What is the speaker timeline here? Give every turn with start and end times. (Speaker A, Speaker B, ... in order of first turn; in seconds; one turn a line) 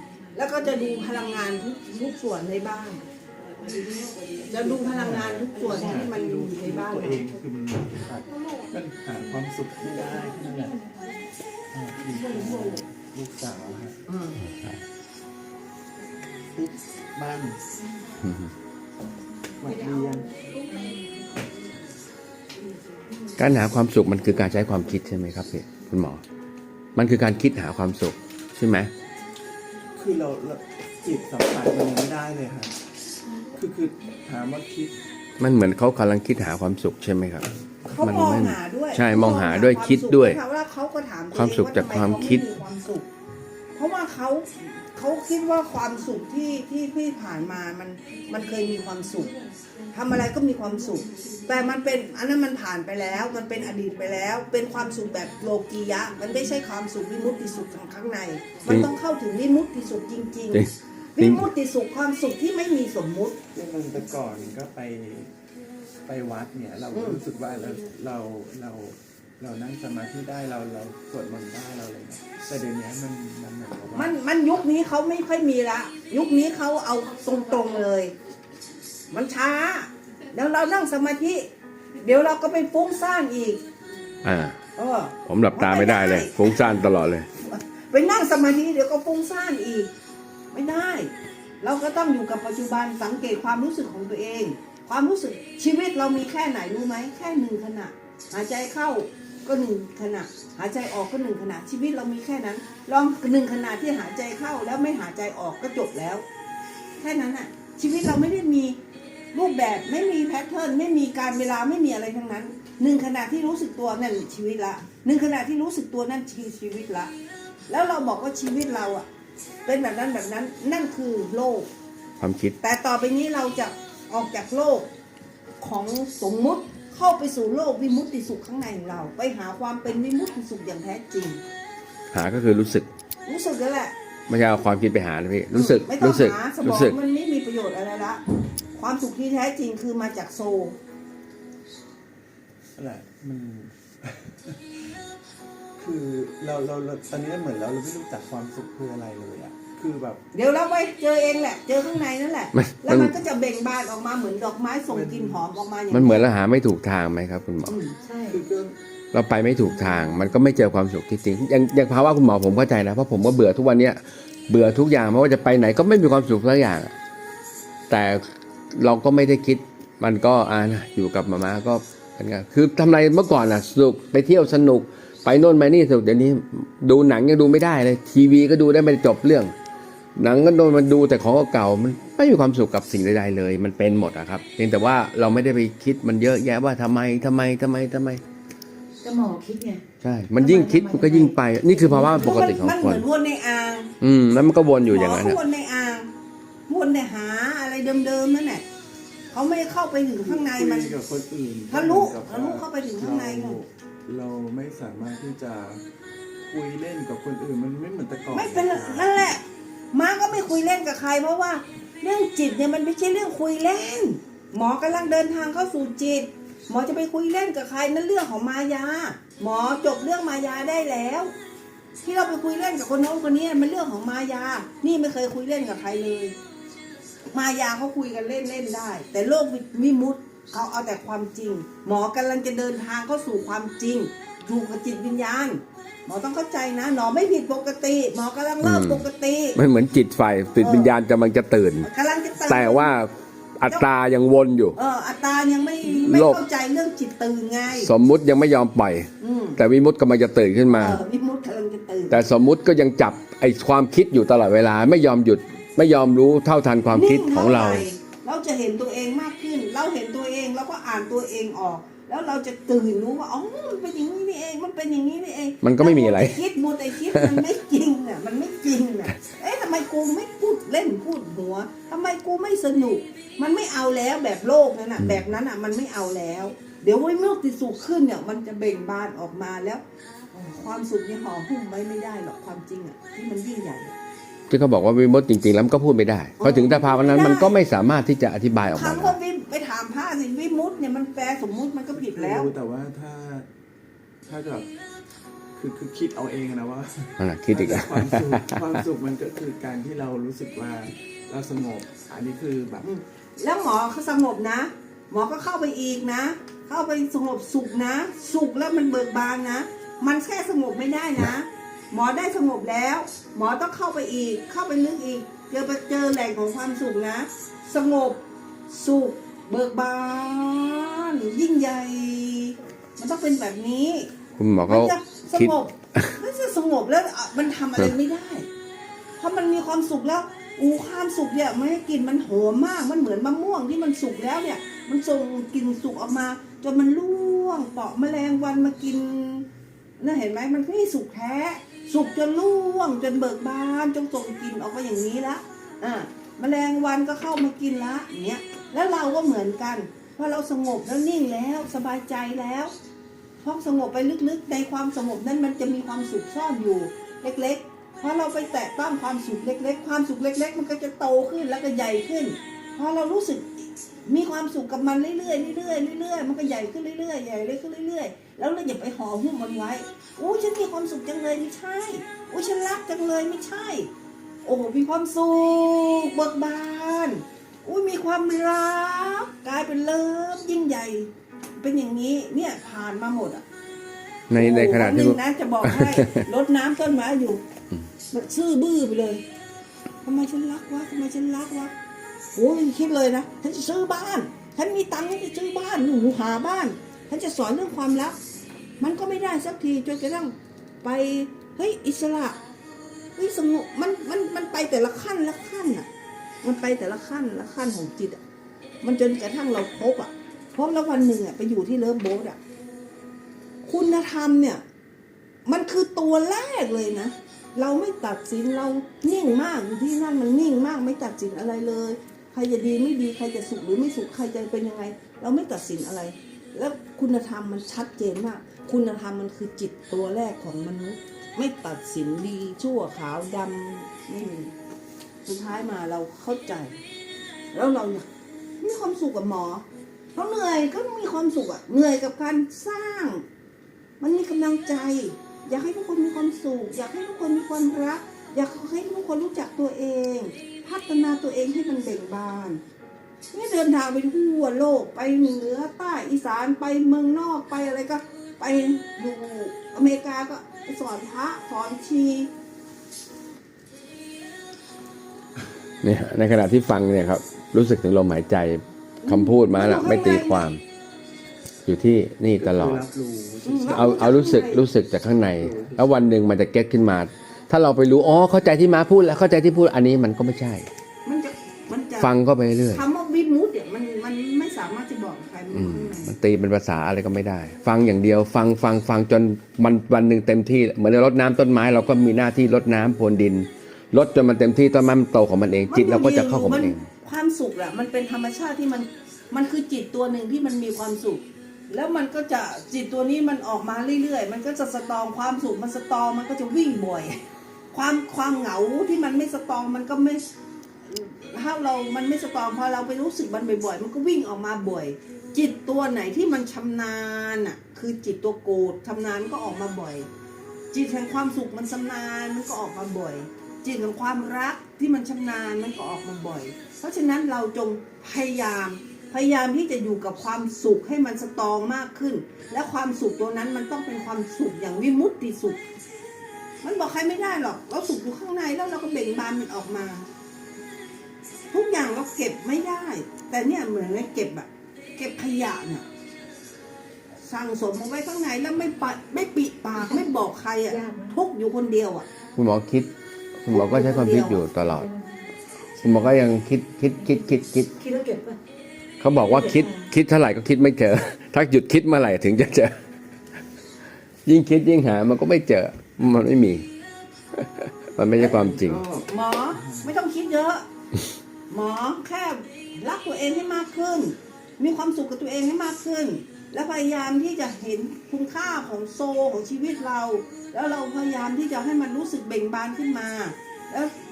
Speaker A: 0.3-3.0
Speaker B: 3.6-4.7
Speaker A: 4.5-7.2
Speaker C: 4.7-10.8
Speaker B: 10.2-10.9
Speaker C: 11.7-14.0
Speaker A: 12.2-12.7
Speaker A: 14.1-14.5
Speaker C: 16.5-17.6
Speaker D: 18.2-18.5
Speaker C: 19.6-20.3
Speaker A: 19.7-21.0
Speaker D: 23.4-26.2
Speaker D: 26.9-28.9
Speaker C: 29.9-32.7
Speaker C: 33.5-35.0
Speaker D: 35.4-37.5
Speaker A: 37.8-43.1
Speaker D: 38.0-40.4
Speaker D: 41.3-42.4
Speaker A: 43.7-49.3
Speaker A: 49.9-60.6
Speaker D: 60.5-61.5
Speaker A: 61.1-63.4
Speaker C: 63.5-65.3
Speaker C: 66.0-74.2
Speaker A: 66.9-67.2
Speaker A: 73.9-78.1
Speaker A: 79.1-81.5
Speaker A: 82.0-83.6
Speaker D: 84.2-84.6
Speaker A: 84.8-86.6
Speaker D: 85.2-87.3
Speaker A: 87.4-89.9
Speaker A: 90.5-106.2
Speaker A: 107.0-108.8
Speaker A: 109.3-117.1
Speaker A: 117.7-119.0
Speaker A: 119.7-121.7
Speaker D: 122.2-122.5
Speaker A: 122.6-124.9
Speaker A: 125.6-131.4
Speaker D: 132.1-132.9
Speaker A: 133.2-133.9
Speaker D: 134.3-136.9
Speaker A: 135.5-138.2
Speaker A: 138.7-140.8
Speaker C: 142.8-144.6
Speaker C: 145.8-150.2
Speaker A: 150.3-156.2
Speaker D: 152.5-153.1
Speaker C: 154.9-155.4
Speaker D: 155.9-157.8
Speaker A: 157.7-157.9
Speaker B: 158.0-158.4
Speaker C: 158.2-158.8
Speaker D: 159.1-166.9
Speaker A: 159.7-160.1
Speaker D: 167.9-179.5
Speaker D: 180.2-188.2
Speaker B: 189.0-189.8
Speaker D: 190.0-193.0
Speaker B: 190.4-192.3
Speaker A: 192.0-193.9
Speaker D: 194.0-195.4
Speaker A: 194.9-196.1
Speaker A: 196.7-198.6
Speaker A: 199.3-201.0
Speaker C: 200.2-205.8
Speaker A: 201.7-203.6
Speaker C: 206.4-209.2
Speaker A: 208.3-221.3
Speaker A: 222.0-226.3
Speaker A: 227.3-239.6
Speaker D: 238.6-241.9
Speaker A: 240.6-240.9
Speaker A: 241.8-242.9
Speaker D: 242.4-244.8
Speaker A: 244.8-247.9
Speaker D: 245.8-246.4
Speaker D: 247.7-251.0
Speaker A: 249.2-249.6
Speaker A: 250.7-252.2
Speaker D: 252.1-257.8
Speaker A: 256.9-279.8
Speaker D: 265.6-266.4
Speaker D: 267.1-267.4
Speaker A: 280.3-283.9
Speaker D: 284.5-289.1
Speaker A: 286.4-287.6
Speaker A: 288.7-292.5
Speaker C: 291.9-293.5
Speaker C: 294.2-294.7
Speaker C: 295.6-302.9
Speaker D: 297.2-298.6
Speaker A: 302.8-324.1
Speaker D: 324.4-326.1
Speaker A: 324.7-328.5
Speaker A: 329.2-339.5
Speaker A: 340.0-352.7
Speaker A: 353.4-373.9
Speaker A: 374.4-383.4
Speaker D: 384.3-386.0
Speaker A: 384.3-387.4
Speaker A: 388.1-389.2
Speaker A: 390.0-391.7
Speaker A: 392.3-398.2
Speaker A: 398.8-402.4
Speaker A: 403.1-405.9
Speaker A: 406.4-408.2
Speaker A: 408.8-412.4
Speaker A: 413.6-414.6
Speaker A: 415.4-434.5
Speaker A: 435.2-436.8
Speaker A: 437.5-438.0
Speaker A: 438.6-439.6
Speaker A: 440.1-443.2
Speaker A: 444.0-452.6
Speaker A: 453.3-462.3
Speaker D: 465.8-470.6
Speaker A: 469.0-470.5
Speaker D: 471.6-472.8
Speaker C: 472.4-474.2
Speaker A: 473.4-474.6
Speaker D: 473.7-480.6
Speaker C: 475.2-475.9
Speaker A: 481.0-482.1
Speaker D: 482.0-482.8
Speaker A: 482.7-486.1
Speaker D: 485.5-496.8
Speaker A: 495.7-507.2
Speaker A: 507.7-510.2
Speaker A: 510.9-520.1
Speaker A: 520.7-535.6
Speaker A: 536.6-540.1
Speaker A: 541.5-545.8
Speaker A: 547.2-552.0
Speaker B: 549.7-550.0
Speaker B: 550.7-551.2
Speaker D: 552.4-554.9
Speaker A: 553.5-554.4
Speaker B: 554.5-555.3
Speaker B: 555.8-556.2
Speaker D: 555.8-557.7
Speaker B: 557.8-558.4
Speaker D: 559.0-562.7
Speaker B: 559.2-559.9
Speaker D: 564.2-566.6
Speaker D: 567.3-568.8
Speaker C: 568.0-569.9
Speaker A: 569.1-570.6
Speaker A: 571.5-583.9